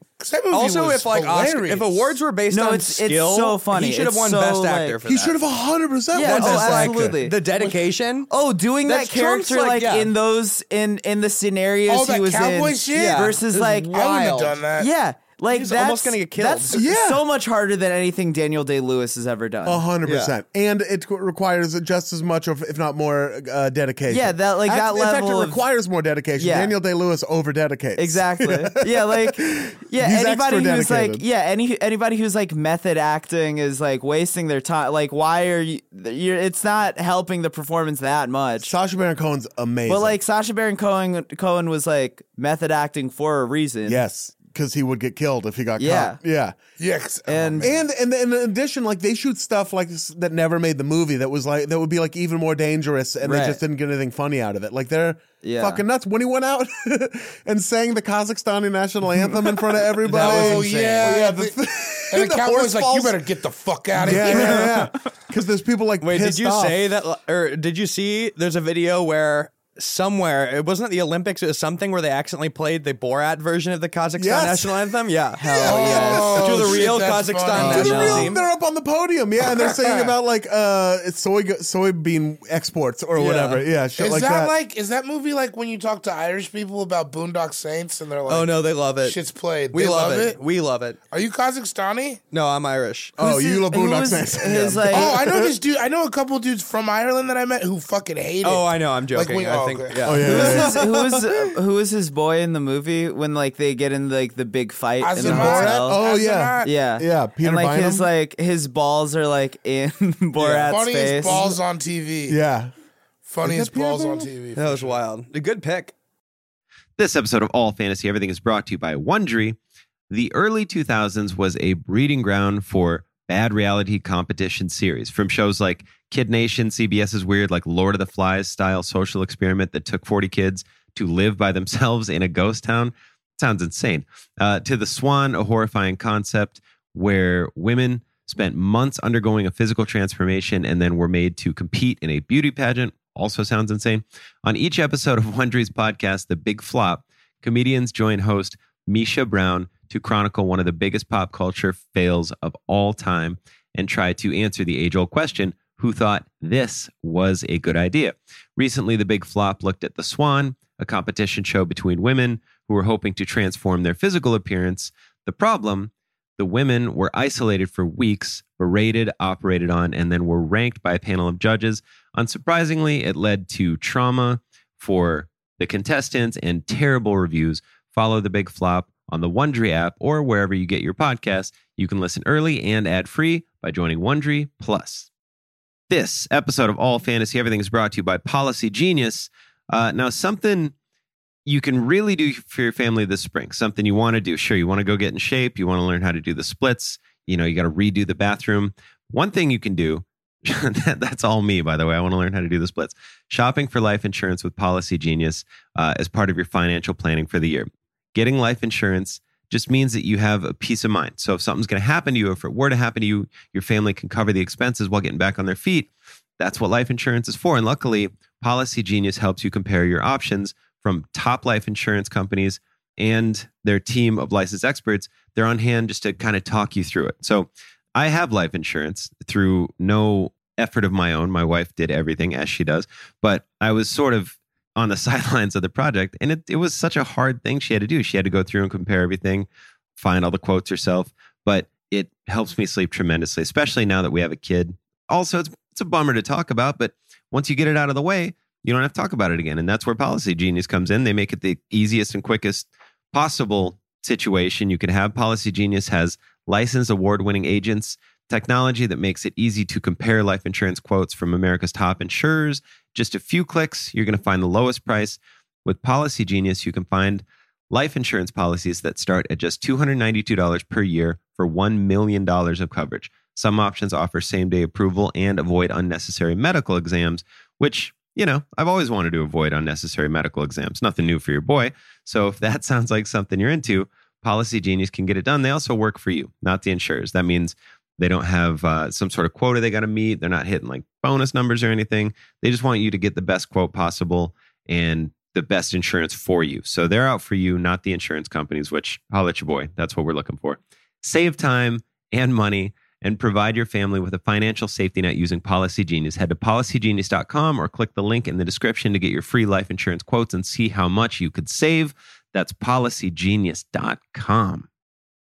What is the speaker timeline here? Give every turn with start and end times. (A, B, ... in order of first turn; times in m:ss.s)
0:00.2-0:02.1 A
0:00.5-0:05.4 B
0:02.5-0:05.0 C
0:05.0-0:07.2 D
0:06.1-0:07.4 C
0:06.2-0:08.3 B
0:08.3-0:19.8 C
0:08.8-0:10.1 B
0:11.9-0:14.9 A
0:12.9-0:14.4 B
0:15.5-0:16.8 B
0:16.7-0:17.2 D
0:19.6-0:31.2 D
0:20.0-0:20.3 B
0:24.1-0:25.6 C
0:26.4-0:26.7 C
0:28.0-0:38.7 C
0:38.6-0:40.2 D
0:39.9-0:44.0 C
0:43.8-0:46.5 D
0:45.8-0:46.2 C
0:46.8-0:47.7 A
0:47.2-0:47.7 C
0:47.6-1:03.2 D
0:53.2-0:53.6 C
0:55.4-0:55.8 C
1:00.1-1:01.6 A
1:00.2-1:00.5 B
1:00.2-1:01.2 C
1:02.1-1:04.7 A
1:04.0-1:06.8 D
1:04.1-1:04.7 B
1:06.0-1:18.4 B
1:14.2-1:14.8 D
1:15.4-1:16.5 C
1:15.5-1:16.1 D
1:15.6-1:18.2 A
1:17.5-1:24.5 D
1:17.6-1:18.3 C
1:19.6-1:20.1 A
1:23.2-1:23.6 B
1:24.0-1:30.4 A
1:28.3-1:29.2 B
1:29.7-1:31.0 B
1:31.1-1:32.2 A
1:32.3-1:33.2 B
1:33.2-1:35.6 D
1:33.2-1:35.1 C
1:34.9-1:40.2 A
1:38.4-1:40.7 B
1:40.0-1:41.3 D
1:40.2-1:46.0 C
1:45.0-1:46.7 A
1:45.2-1:48.1 D
1:46.6-1:51.6 C
1:50.4-1:50.7 B
1:50.6-1:52.4 A
1:52.3-1:52.7 D
1:53.2-1:55.0 A
1:53.4-1:54.3 D
1:54.5-1:55.9 B
1:57.0-1:59.6 E
2:00.1-3:05.1 E
3:05.9-3:10.7 E
3:11.4-5:14.7 E